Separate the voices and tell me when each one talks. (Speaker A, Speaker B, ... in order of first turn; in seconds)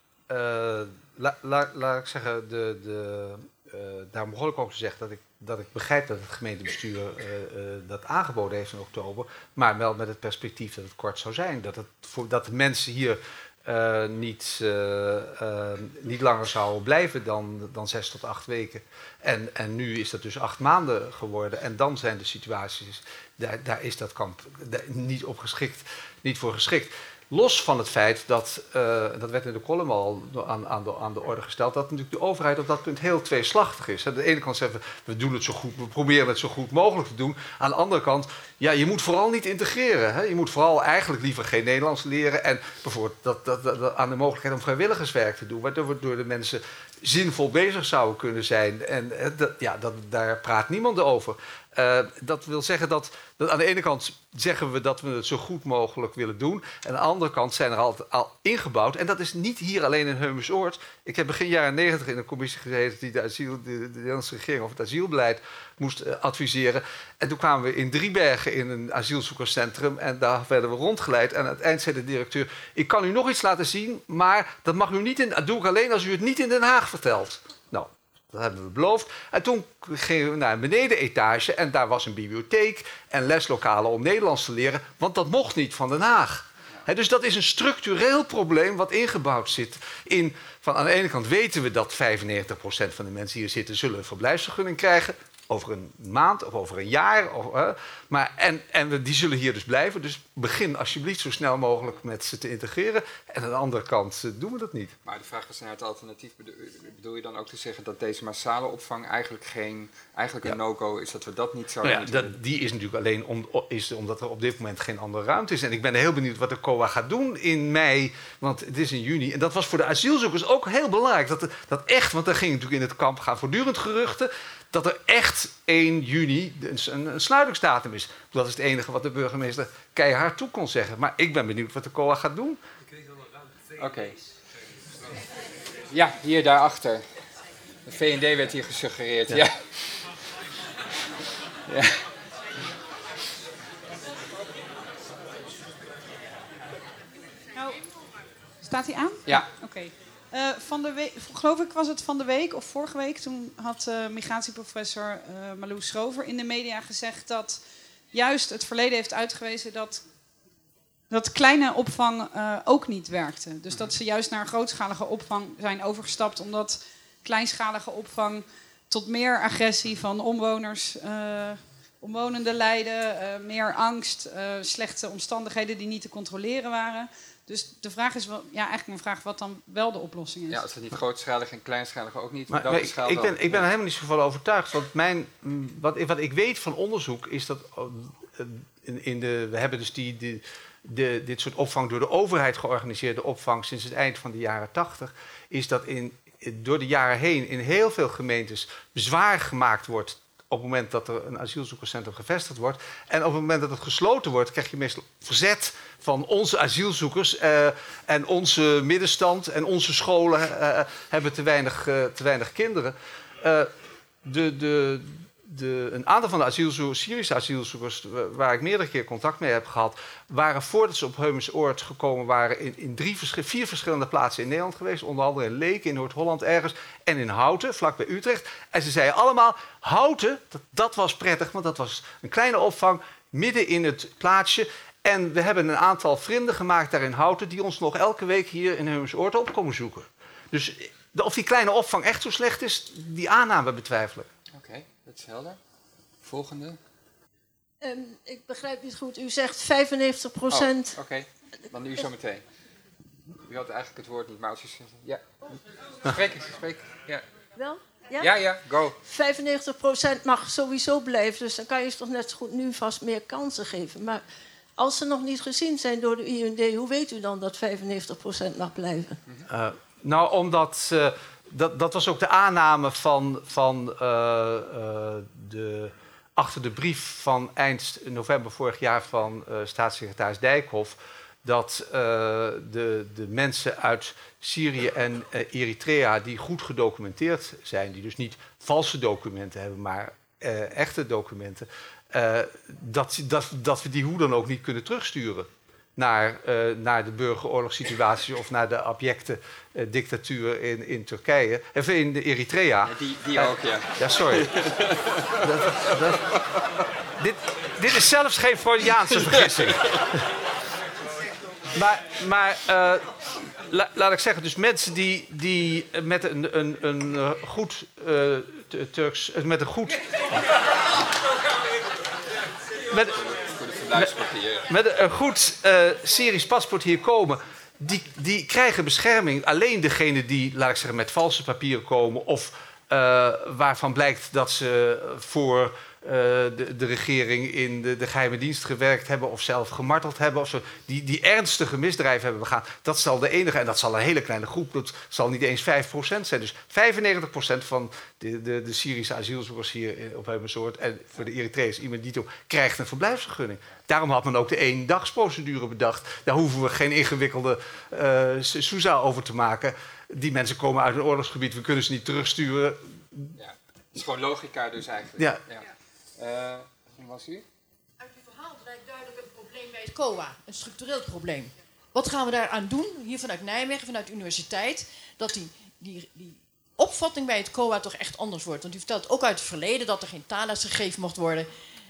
Speaker A: 0.3-105.0, 111.8-132.6, 182.5-213.7, 214.2-244.3, 269.5-304.8, 305.3-306.3, 307.2-310.3, 311.7-320.4, 322.9-323.2, 324.7-363.4
Speaker B: 105.0-112.3, 133.8-134.2, 135.9-137.0, 137.8-140.0, 141.7-142.0, 180.5-183.7, 244.5-245.6, 246.2-246.8, 250.5-252.4, 253.4-255.4, 256.0-257.2, 258.2-259.0, 302.9-306.4, 309.4-310.1, 323.1-324.7, 363.4-365.7, 366.2-367.4
Speaker C: 147.5-147.8, 148.6-160.0, 161.1-180.6
Speaker D: 247.8-251.0, 257.6-258.3, 259.0-264.2, 264.8-269.2
Speaker E: 368.0-381.5